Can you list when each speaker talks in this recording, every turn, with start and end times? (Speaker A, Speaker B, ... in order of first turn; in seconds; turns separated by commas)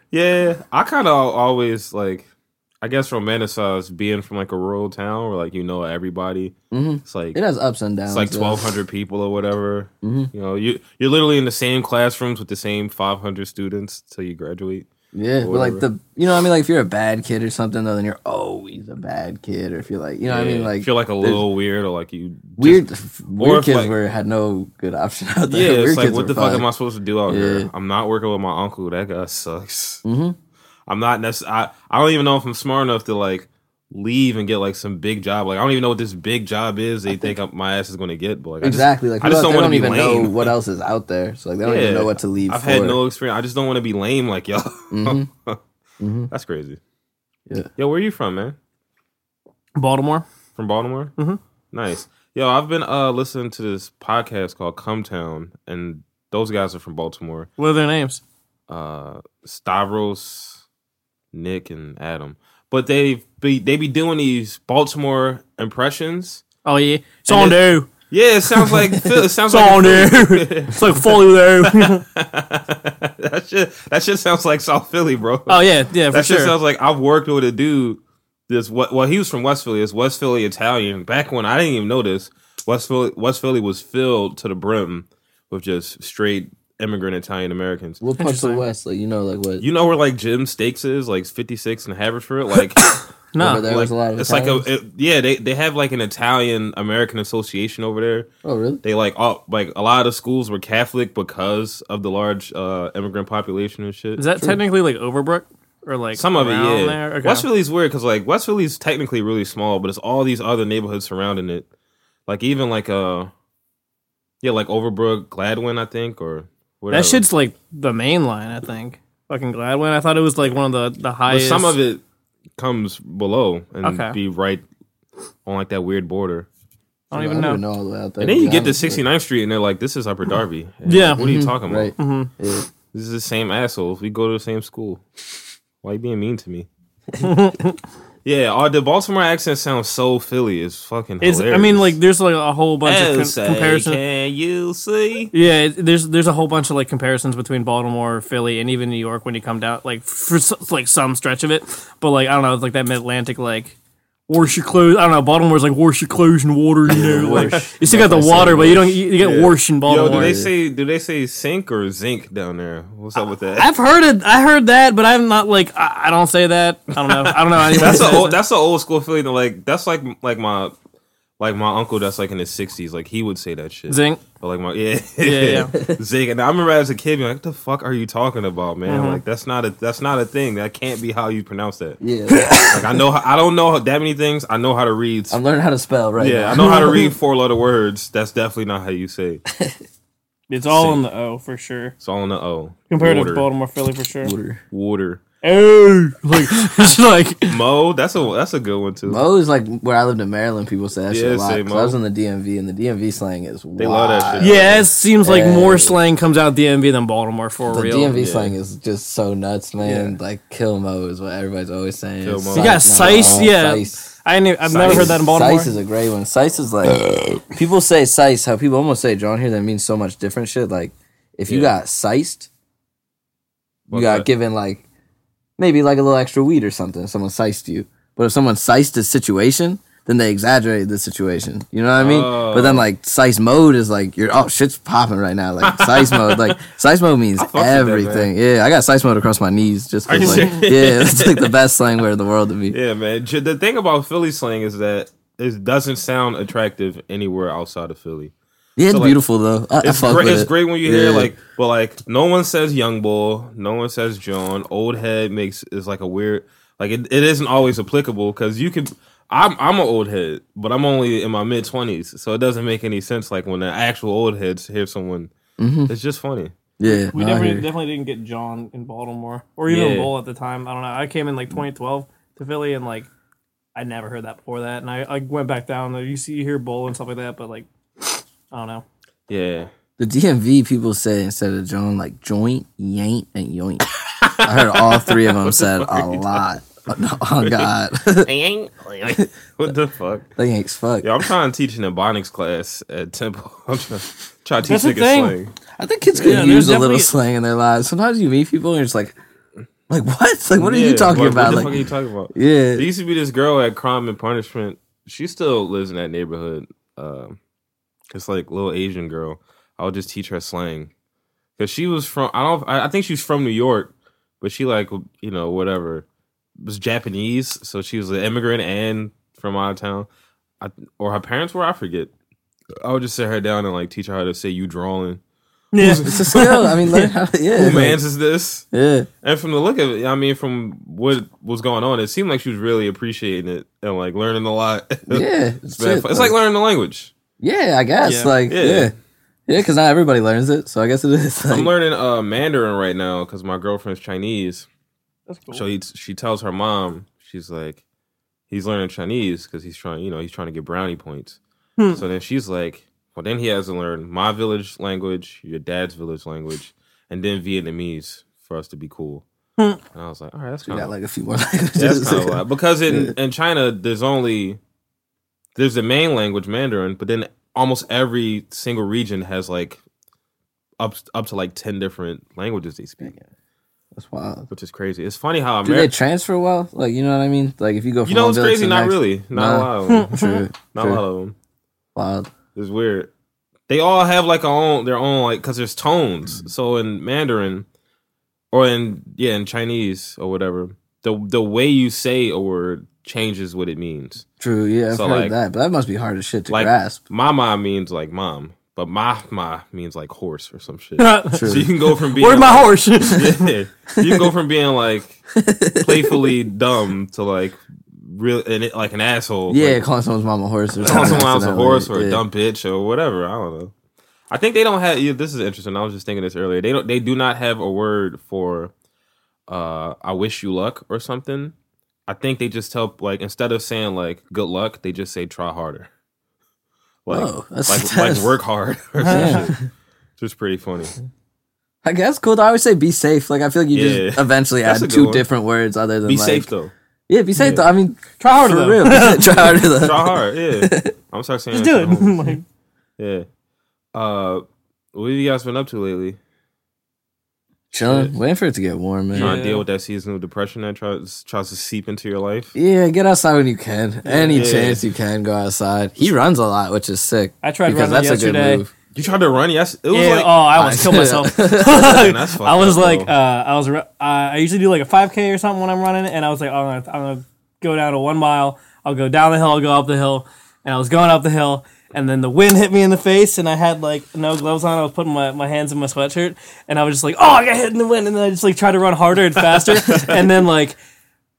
Speaker A: 0.1-2.3, Speaker A: 2.8-7.4, Speaker B: 6.7-8.6, Speaker A: 8.1-14.9, Speaker B: 10.0-10.3, Speaker B: 15.1-21.4, Speaker A: 15.4-15.8, Speaker A: 20.2-23.9, Speaker B: 22.6-26.6, Speaker A: 25.5-30.0, Speaker B: 27.2-27.7, Speaker B: 30.0-30.4, Speaker A: 30.9-40.5, Speaker B: 37.1-37.4, Speaker B: 38.6-43.0, Speaker A: 41.6-45.6, Speaker B: 44.9-45.3, Speaker B: 46.0-46.3, Speaker A: 46.3-46.8, Speaker A: 47.8-48.6, Speaker C: 49.8-50.2, Speaker A: 50.5-51.1, Speaker A: 51.7-57.5, Speaker C: 57.6-58.2, Speaker A: 58.7-60.6, Speaker A: 61.3-66.4, Speaker C: 66.6-67.9, Speaker A: 67.3-88.0, Speaker C: 68.5-68.8, Speaker C: 69.5-72.0, Speaker C: 75.5-76.5, Speaker B: 88.0-89.6, Speaker C: 88.2-88.6, Speaker A: 89.6-92.8, Speaker C: 93.3-93.7, Speaker B: 93.4-94.7, Speaker A: 93.6-98.3, Speaker B: 98.4-98.8, Speaker A: 98.8-104.2, Speaker C: 104.2-107.5, Speaker A: 106.2-111.7, Speaker A: 112.3-113.3, Speaker A: 114.4-117.2, Speaker C: 116.9-121.8, Speaker A: 121.3-122.0, Speaker A: 122.6-124.6, Speaker C: 123.8-124.2, Speaker A: 125.4-126.5, Speaker C: 127.1-127.6, Speaker B: 127.1-129.0, Speaker A: 128.2-131.9, Speaker C: 130.8-131.2, Speaker B: 131.2-132.7, Speaker C: 132.0-132.3, Speaker A: 132.9-135.0, Speaker A: 135.8-136.7, Speaker C: 137.2-137.8, Speaker A: 138.2-142.0, Speaker C: 141.2-144.0, Speaker A: 142.8-145.3, Speaker C: 145.3-153.8, Speaker C: 154.3-160.4, Speaker B: 156.9-158.9, Speaker A: 156.9-157.7, Speaker A: 158.3-163.7, Speaker B: 159.9-160.5, Speaker C: 163.5-168.3, Speaker A: 167.1-170.7, Speaker A: 171.4-182.0, Speaker C: 173.9-174.2, Speaker C: 175.2-175.7, Speaker B: 175.7-176.0, Speaker C: 178.8-179.2, Speaker B: 182.0-182.7, Speaker C: 182.3-182.8, Speaker A: 182.7-185.4, Speaker B: 185.3-187.0, Speaker A: 186.2-189.4, Speaker C: 186.6-187.1, Speaker C: 190.5-191.9, Speaker A: 190.7-191.0, Speaker A: 192.0-193.5, Speaker C: 192.9-194.3, Speaker B: 194.2-194.6, Speaker A: 194.7-195.2, Speaker C: 195.4-197.6, Speaker A: 197.5-199.2, Speaker B: 199.1-204.6, Speaker A: 201.1-202.0, Speaker A: 203.8-204.9, Speaker C: 204.4-208.1, Speaker B: 205.2-206.0, Speaker B: 207.7-214.0, Speaker A: 208.1-208.6, Speaker C: 209.8-210.1, Speaker A: 212.2-213.5, Speaker C: 212.5-215.7, Speaker A: 214.6-215.2, Speaker B: 214.8-222.5, Speaker A: 221.5-221.7, Speaker A: 223.9-224.3, Speaker B: 223.9-224.8, Speaker B: 225.6-242.8, Speaker A: 232.0-232.9, Speaker A: 235.6-236.6, Speaker A: 237.4-238.3, Speaker A: 240.1-241.6, Speaker C: 240.2-240.6, Speaker A: 242.7-248.3, Speaker B: 248.8-251.3, Speaker A: 248.9-249.2, Speaker A: 249.8-265.3, Speaker B: 265.6-265.9, Speaker A: 265.9-266.5, Speaker B: 266.8-267.7, Speaker C: 267.1-273.1, Speaker A: 269.7-270.1, Speaker C: 273.7-278.8, Speaker A: 279.3-279.7, Speaker B: 280.0-283.9, Speaker A: 284.1-286.4, Speaker B: 284.4-288.3, Speaker A: 287.4-290.3, Speaker B: 290.4-291.1, Speaker A: 291.0-295.5, Speaker C: 294.6-295.4, Speaker B: 295.8-299.1, Speaker C: 296.1-297.1, Speaker B: 299.9-302.9, Speaker A: 300.6-307.4, Speaker A: 308.1-310.9, Speaker A: 311.6-316.1, Speaker A: 316.6-320.1, Speaker A: 320.6-322.1, Speaker A: 322.8-325.2, Speaker C: 325.7-327.1, Speaker A: 325.7-326.7, Speaker B: 326.0-328.0, Speaker A: 327.5-328.6, Speaker B: 328.7-329.1, Speaker A: 329.2-337.1, Speaker B: 335.1-336.3, Speaker B: 337.4-338.9, Speaker C: 338.0-338.3, Speaker A: 338.5-338.9, Speaker B: 339.5-341.7, Speaker A: 341.5-344.7, Speaker C: 345.3-345.6, Speaker A: 345.5-347.8, Speaker A: 348.5-351.4, Speaker A: 351.9-359.2, Speaker A: 359.9-360.9, Speaker B: 360.6-363.1, Speaker A: 361.8-364.6, Speaker A: 365.6-369.8, Speaker A: 370.8-373.1, Speaker B: 373.9-374.5, Speaker A: 374.5-375.9, Speaker B: 375.6-381.0, Speaker A: 378.0-380.1, Speaker C: 379.9-380.4, Speaker A: 380.7-381.3, Speaker B: 381.9-382.3, Speaker A: 382.5-383.1, Speaker A: 383.7-387.7, Speaker A: 388.5-394.2, Speaker B: 394.4-397.0, Speaker A: 394.9-395.4, Speaker A: 396.5-405.2, Speaker C: 401.0-403.5, Speaker B: 401.3-401.7, Speaker B: 405.3-406.3, Speaker A: 405.8-409.8, Speaker B: 409.5-412.2, Speaker A: 410.8-413.7, Speaker A: 414.3-418.7, Speaker A: 419.5-421.5, Speaker A: 422.1-425.9, Speaker A: 427.0-429.6, Speaker B: 427.1-428.4, Speaker C: 429.0-429.5, Speaker B: 429.1-429.6, Speaker A: 430.2-430.9, Speaker B: 431.8-436.5, Speaker A: 433.7-435.3, Speaker A: 436.0-436.7, Speaker B: 437.1-440.9, Speaker A: 437.4-437.6, Speaker C: 438.2-439.5, Speaker A: 439.3-442.4, Speaker C: 441.5-442.4, Speaker A: 443.0-443.3, Speaker A: 443.9-446.2, Speaker B: 447.7-449.4, Speaker A: 447.8-448.1, Speaker C: 449.1-449.6, Speaker A: 449.1-452.5, Speaker B: 452.5-458.7, Speaker C: 454.0-454.8, Speaker A: 454.3-454.8, Speaker C: 457.4-458.6, Speaker A: 458.9-460.3, Speaker C: 459.9-480.8, Speaker B: 460.6-461.9, Speaker A: 461.6-463.1, Speaker A: 479.8-480.1